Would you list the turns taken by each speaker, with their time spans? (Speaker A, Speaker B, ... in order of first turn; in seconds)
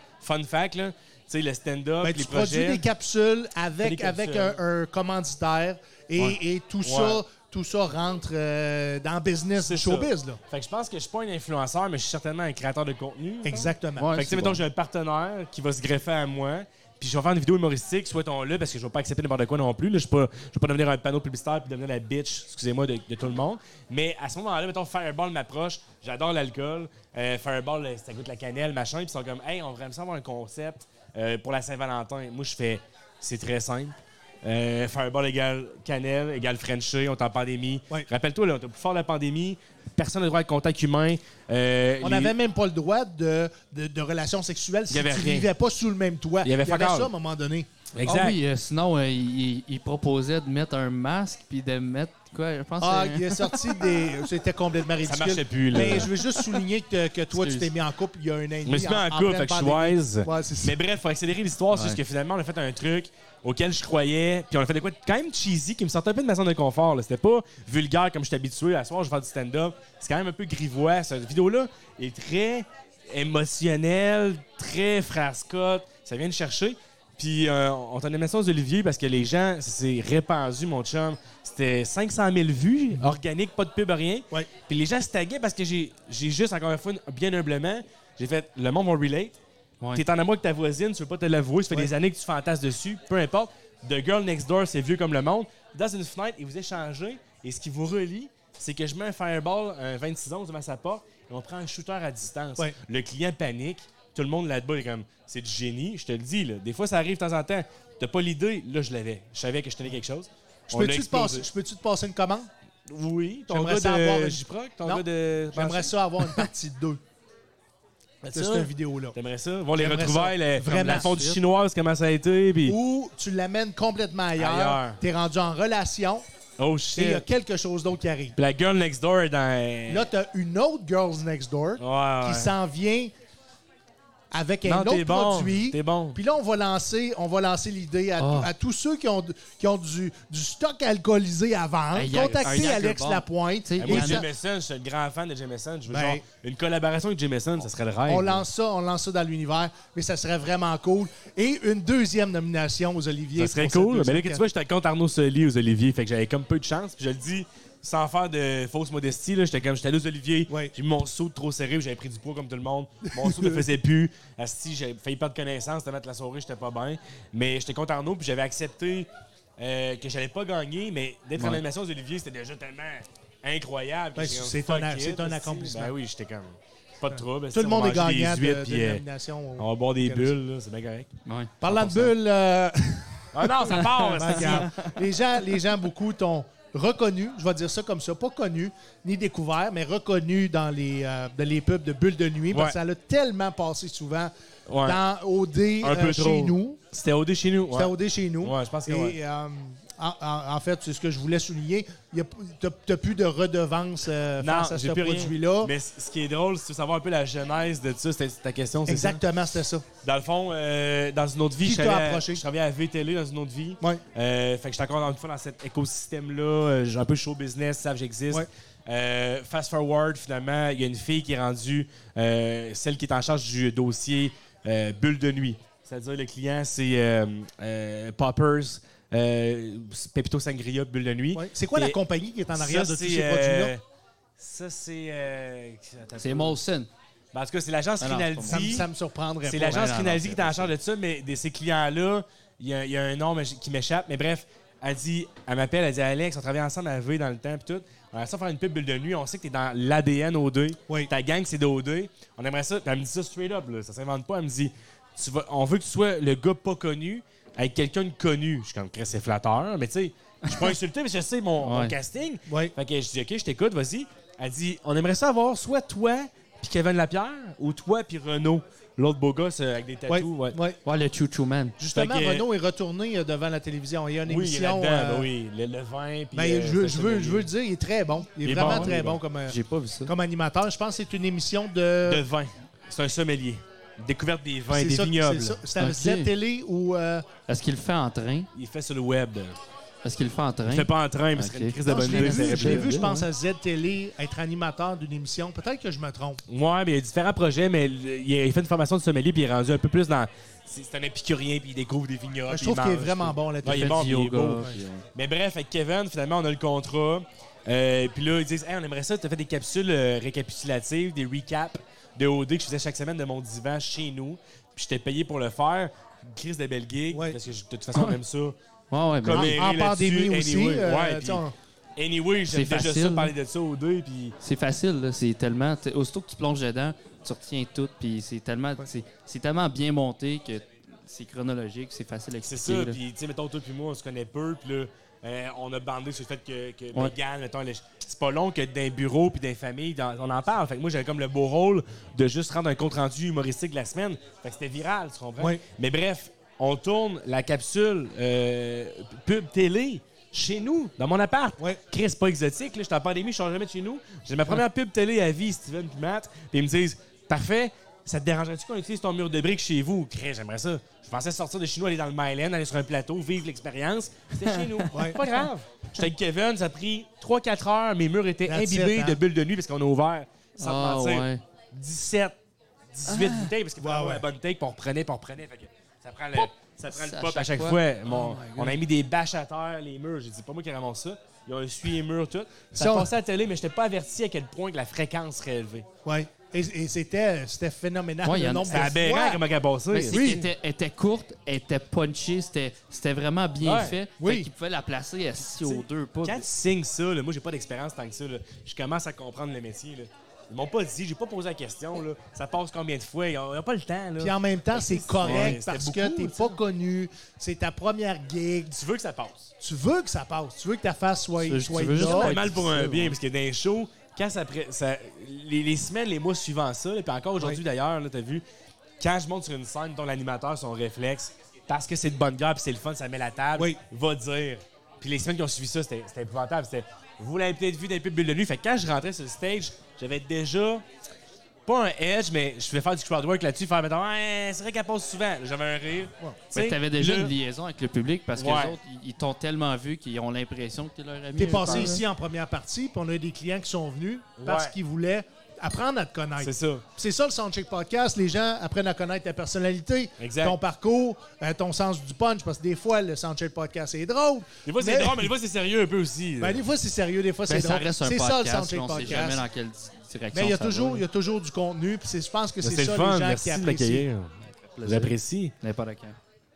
Speaker A: 0.2-2.8, 3.8-4.6, 6.8-7.2, 9.6-42.3, 44.9-45.5, 46.4-47.1, 48.0-48.4, 55.0-56.1, 58.7-89.4, 90.0-111.5, 112.9-116.5, 118.2-122.8, 124.4-125.0, 126.6-127.2, 128.4-130.1, 131.8-132.5, 134.7-136.2, 142.1-142.7, 143.8-148.4, 153.4-179.0, 179.6-181.1, 183.3-184.7, 192.5-192.8, 194.7-195.0, 195.8-199.2, 204.4-209.2, 210.0-232.0, 232.5-233.8, 234.4-236.6, 237.3-238.9, 239.4-270.6, 271.9-272.5, 274.3-277.5, 278.4-279.2, 282.1-285.6, 288.5-289.6, 290.7-293.0, 296.5-318.6, 319.2-321.4, 322.0-324.4, 332.4-372.4, 372.9-385.9, 388.7-390.5, 393.6-393.9, 395.5-406.6, 408.7-409.5, 412.0-418.4, 419.0-430.8, 431.7-437.3, 438.4-438.8, 441.6-442.0, 444.4-444.8, 446.4-446.9, 450.2-450.6, 454.7-456.6, 462.6-465.5
Speaker B: 2.0-10.4, 13.4-14.1, 42.0-47.7, 52.8-60.8, 110.7-112.5, 113.5-117.0, 118.3-119.2, 119.8-121.4, 122.7-126.2, 127.0-128.4, 129.9-133.1, 134.3-144.3, 145.9-146.2, 148.1-154.4, 163.2-163.6, 174.2-175.9, 177.1-180.3, 181.6-194.3, 194.8-196.8, 197.7-205.7, 208.9-209.9, 211.6-212.4, 231.3-233.7, 238.5-239.9, 262.5-262.7, 270.1-270.8, 271.8-275.3, 276.3-282.2, 284.7-287.3, 291.9-296.4, 302.5-304.8, 317.1-317.4, 319.3-321.5, 364.9-365.2, 368.5-369.2, 373.8-374.3, 378.1-378.8, 382.7-383.1, 386.1-389.4, 390.1-390.4, 394.2-394.5, 404.2-408.8, 409.6-412.6, 441.4-455.3, 456.4-459.4, 460.3-464.1
Speaker C: 14.0-14.6, 48.0-53.8, 55.7-56.4, 57.4-57.7, 61.7-62.0, 138.2-138.5, 141.9-144.2, 181.2-182.1, 183.8-185.0, 236.2-236.9, 238.0-238.8, 239.6-240.7, 260.5-260.7, 261.6-262.0, 270.9-271.8, 278.6-278.9, 279.5-280.1, 285.8-286.3, 287.5-288.5, 290.0-293.2, 303.6-305.1, 318.9-319.6, 322.5-323.3, 324.4-333.0, 364.4-365.3, 370.6-371.4, 373.1-373.4, 376.4-377.8, 388.2-388.9, 389.9-396.5, 405.2-405.6, 411.4-413.2, 436.5-442.0, 457.5-461.0, 464.7-466.2